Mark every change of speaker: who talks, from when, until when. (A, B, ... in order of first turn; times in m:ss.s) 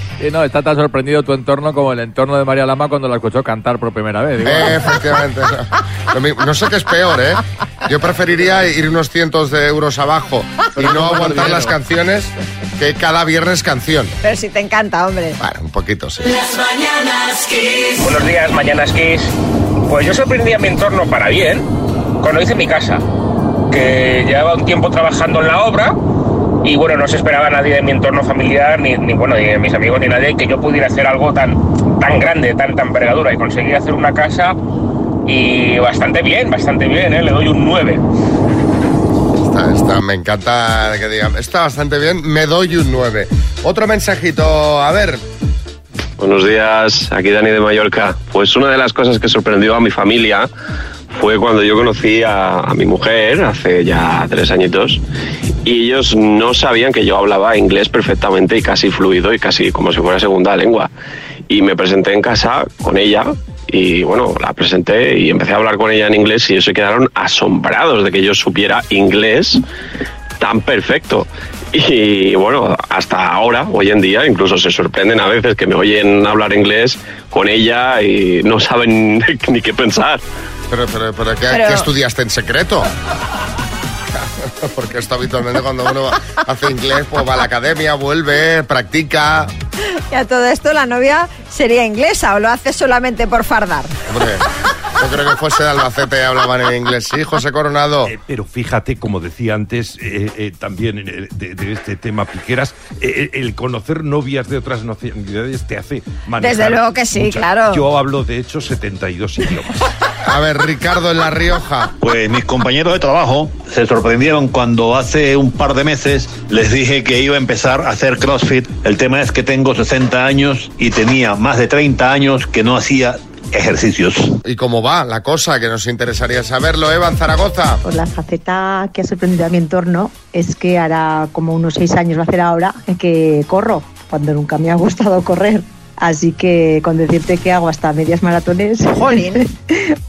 0:00.2-0:05.1 A
0:04.4-0:14.1 B
0:10.8-0:11.7 A
0:14.2-0:15.4 C
0:15.4-0:16.4 B
0:17.9-0:19.3 D
0:19.9-0:23.0 D
0:23.7-0:26.0 D
0:26.6-0:34.6 D
0:35.2-0:38.0 D
0:39.4-0:45.2 B
0:46.2-0:50.5 E
0:51.1-0:55.0 E
0:55.6-1:00.9 E
1:01.5-1:09.6 E
1:10.4-1:20.2 E
1:20.7-1:22.9 B
1:21.5-1:21.9 C
1:24.4-1:29.5 B
1:30.1-1:33.9 C
1:34.1-1:34.4 B
1:35.0-1:38.1 B
1:38.0-1:49.8 F
1:46.4-1:47.8 C
1:50.2-1:51.9 B
1:52.0-2:04.3 G
2:04.4-2:07.8 B
2:07.8-2:19.9 H
2:18.9-2:19.4 C